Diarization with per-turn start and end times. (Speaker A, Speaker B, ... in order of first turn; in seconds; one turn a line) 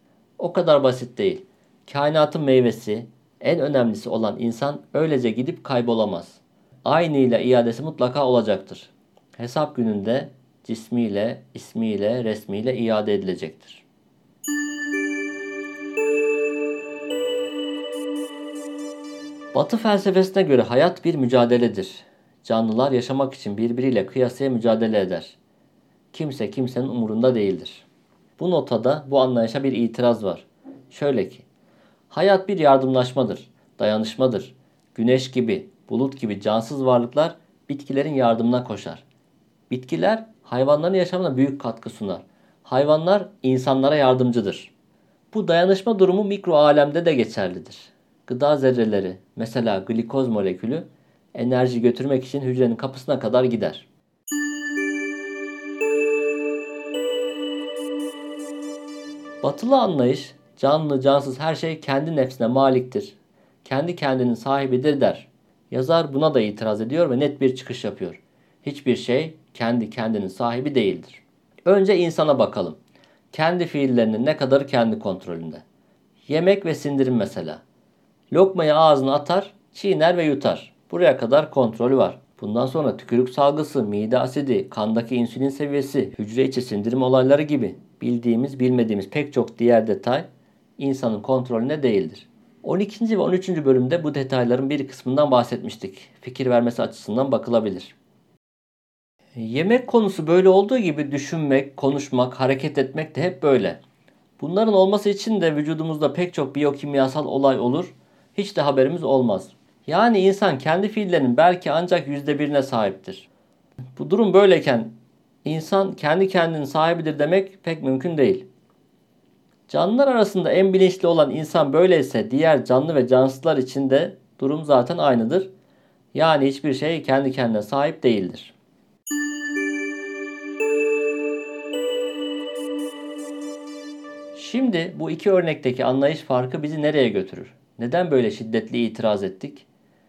Speaker A: 0.4-13.8
Speaker A: 19.5-25.4
Speaker A: 26.1-27.9
Speaker A: 28.4-31.4
Speaker A: 32.1-39.0
Speaker A: 39.7-44.7
Speaker A: 45.3-53.9
Speaker A: 59.4-72.8
Speaker A: 73.3-75.6
Speaker A: 76.3-77.6
Speaker A: 78.3-90.3
Speaker A: 90.8-98.0
Speaker A: 99.3-103.8
Speaker A: 104.4-113.3
Speaker A: 114.0-118.5
Speaker A: 119.7-125.5
Speaker A: 126.1-128.5
Speaker A: 134.3-139.7